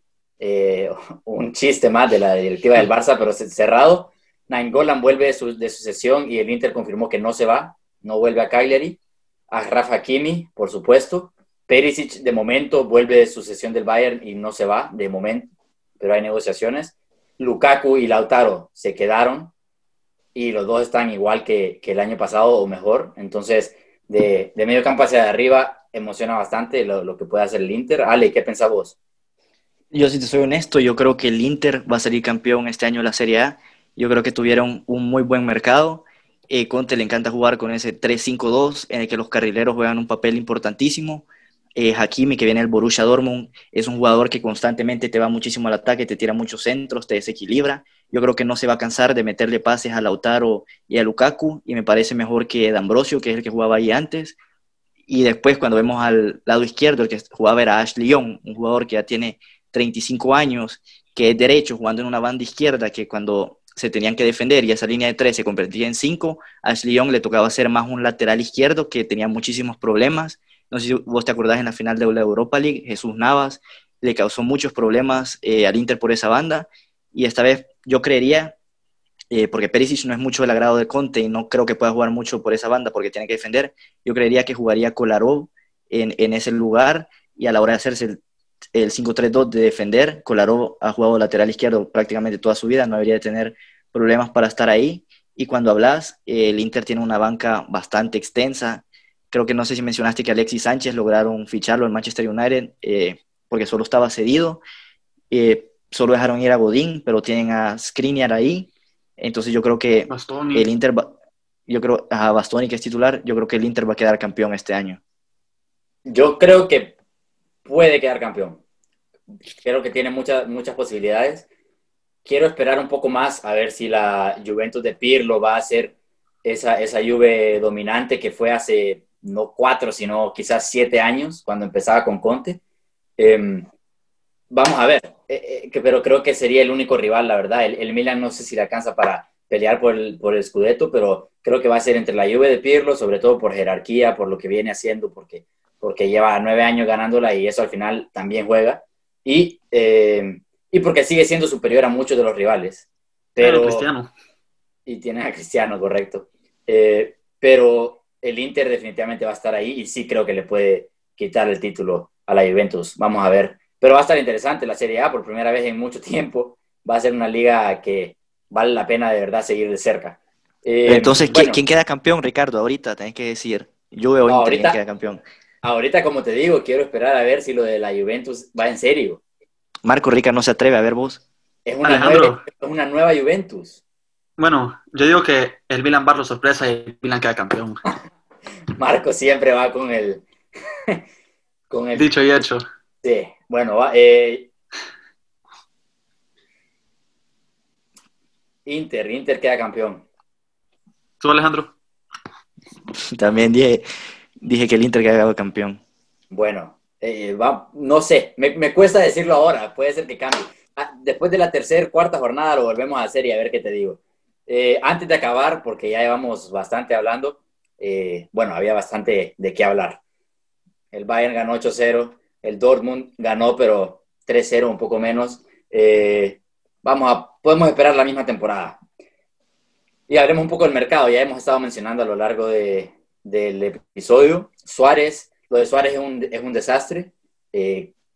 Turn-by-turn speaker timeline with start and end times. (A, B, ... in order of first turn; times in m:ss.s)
0:00.4-0:09.0 A
0:09.5-0:19.5 A
0:20.3-0:29.0 A
0:29.9-0:54.4 B
0:55.1-1:18.5 B
1:19.3-1:28.2 B
1:28.7-1:44.6 B
1:45.3-1:51.1 B
1:50.1-1:50.7 C
1:51.7-1:55.0 B
1:56.0-1:56.9 A
1:57.6-1:58.6 A
1:59.6-2:01.5 A
2:02.2-2:12.6 A
2:13.2-2:13.7 A
2:14.5-2:33.9 A
2:33.4-2:34.1 C
2:34.9-2:51.6 A
2:50.9-2:55.2 B
2:54.2-2:54.8 A
2:55.6-2:59.2 A
2:59.8-3:01.2 B
3:01.6-3:03.8 A
3:01.8-3:02.4 C
3:04.4-3:07.8 C
3:08.8-3:10.2 A
3:11.7-3:12.1 A
3:12.0-3:12.6 C
3:13.0-3:14.5 A
3:18.6-3:20.0 A
3:21.2-3:21.7 C
3:23.1-3:23.8 B
3:24.4-3:25.8 B
3:26.3-3:40.0 A
3:40.9-3:48.8 A
3:50.1-3:57.9 A